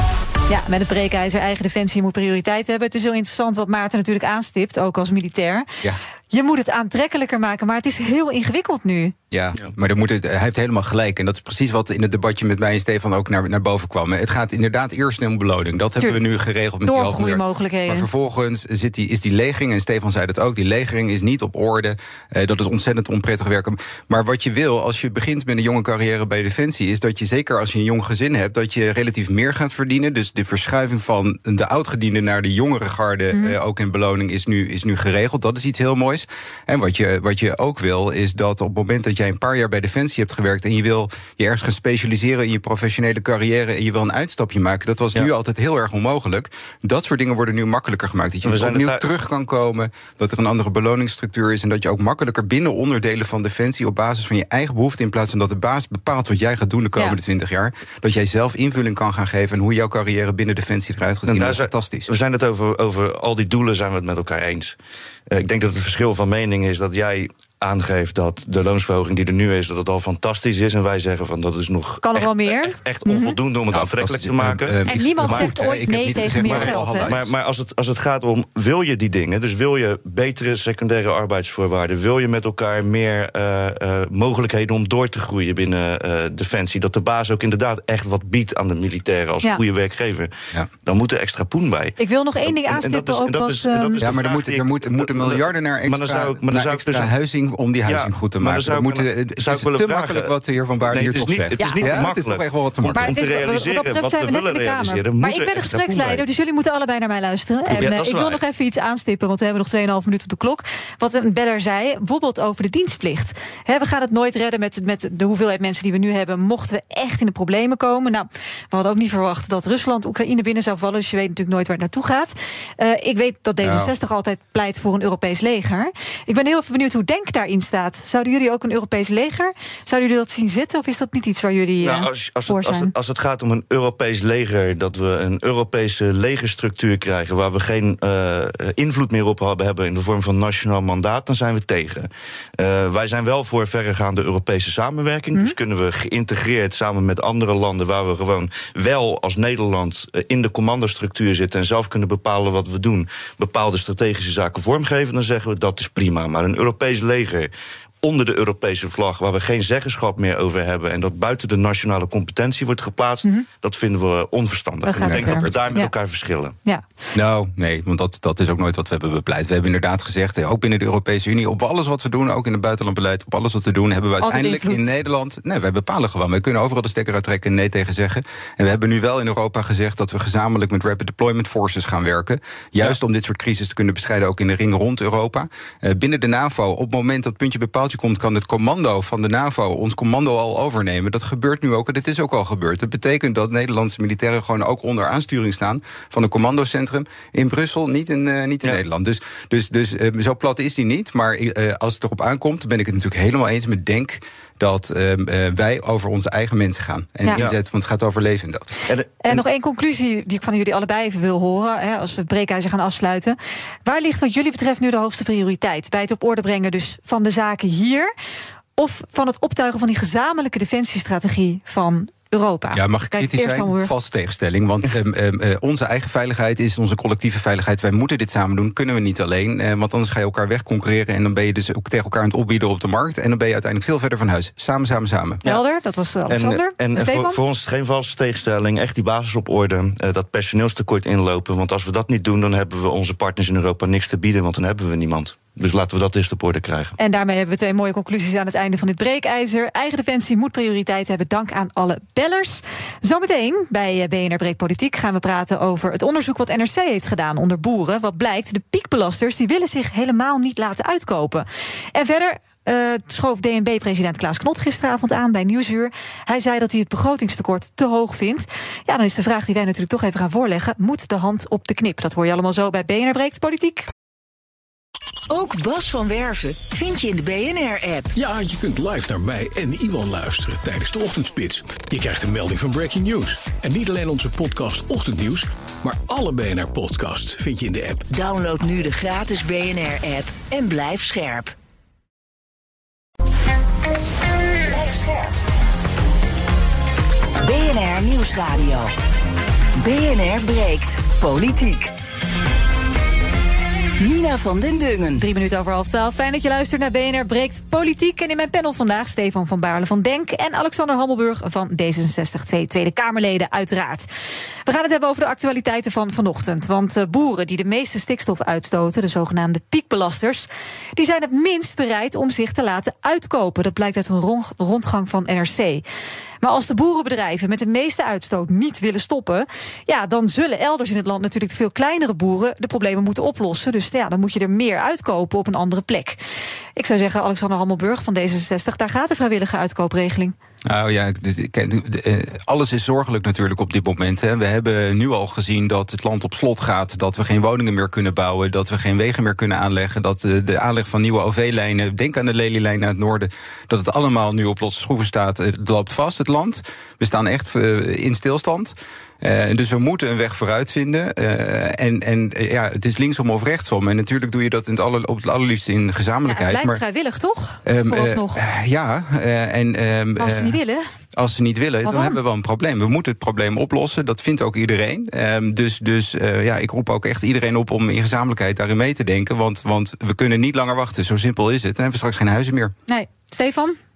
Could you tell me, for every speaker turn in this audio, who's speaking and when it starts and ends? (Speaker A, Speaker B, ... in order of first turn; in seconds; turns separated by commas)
Speaker A: 0.5-5.7, Speaker A: 6.3-9.1, Speaker B: 9.3-62.1, Speaker A: 16.8-18.1, Speaker C: 48.4-49.0, Speaker C: 61.3-64.8, Speaker C: 65.3-75.5, Speaker A: 72.0-73.3, Speaker B: 73.7-77.3, Speaker A: 74.9-77.1, Speaker C: 76.1-90.3, Speaker C: 90.8-97.1, Speaker A: 92.0-94.0, Speaker B: 94.0-103.2, Speaker C: 97.9-100.3, Speaker C: 100.9-106.2, Speaker A: 101.6-102.0, Speaker A: 102.9-132.9, Speaker C: 107.7-108.4, Speaker B: 123.6-123.9, Speaker C: 131.8-157.5, Speaker C: 158.0-166.6, Speaker A: 164.8-165.9, Speaker B: 165.0-165.7, Speaker B: 167.1-208.7, Speaker A: 174.2-174.9, Speaker C: 208.9-209.3, Speaker A: 209.2-218.1, Speaker A: 218.8-223.9, Speaker B: 222.7-235.4, Speaker A: 235.4-237.4, Speaker C: 236.3-246.9, Speaker A: 247.0-273.9, Speaker D: 275.3-278.1, Speaker E: 278.1-288.1, Speaker D: 288.1-291.5, Speaker D: 294.7-295.4, Speaker D: 297.4-298.9, Speaker D: 299.8-301.9, Speaker D: 304.0-305.2, Speaker A: 305.2-314.1, Speaker A: 314.6-325.8, Speaker A: 326.4-336.2, Speaker A: 336.8-340.3, Speaker B: 340.6-366.8, Speaker A: 366.3-368.4, Speaker B: 367.6-370.6, Speaker A: 370.2-370.8, Speaker B: 371.1-382.7, Speaker A: 371.8-372.2, Speaker A: 382.9-383.8